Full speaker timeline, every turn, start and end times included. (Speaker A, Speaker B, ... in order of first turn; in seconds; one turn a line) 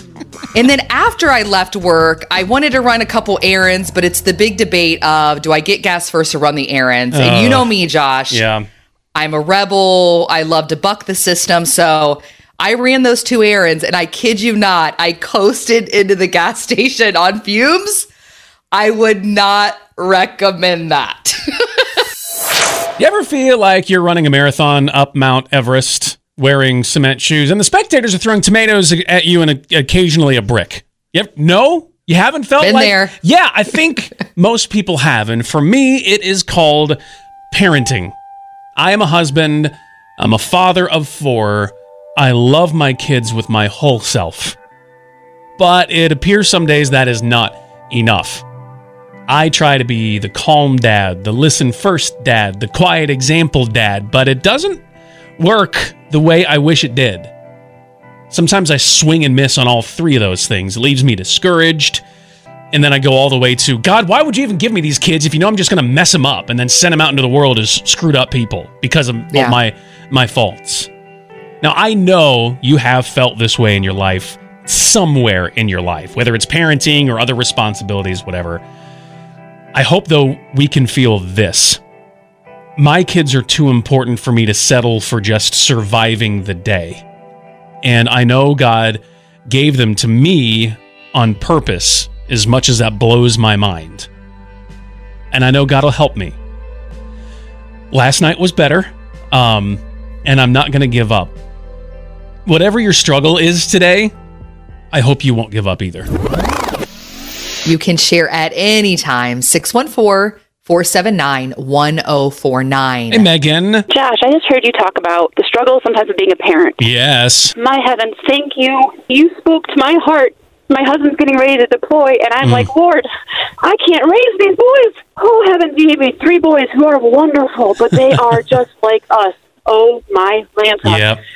Speaker A: 0.5-8.4
Speaker B: 7.1-7.7
Speaker B: 8.3-8.7
Speaker A: 9.2-18.1
Speaker A: 18.7-21.8
Speaker B: 23.0-37.0
Speaker A: 32.6-33.1
Speaker B: 37.5-38.1
Speaker B: 38.8-44.6
Speaker B: 45.6-48.4
Speaker B: 49.3-54.8
Speaker B: 55.4-57.3
Speaker B: 58.3-62.0
Speaker B: 62.7-70.9
Speaker B: 71.6-78.6
Speaker B: 79.7-81.8
Speaker B: 82.8-87.0
Speaker B: 87.8-94.1
Speaker B: 95.3-96.4
Speaker B: 97.9-101.3
Speaker B: 102.5-104.1
Speaker B: 104.9-106.1
Speaker A: 107.7-113.3
Speaker B: 113.1-113.9
Speaker C: 113.9-116.9
Speaker B: 116.8-117.5
Speaker C: 117.5-123.1
Speaker B: 122.4-122.7
Speaker C: 123.6-131.2
Speaker B: 130.8-131.2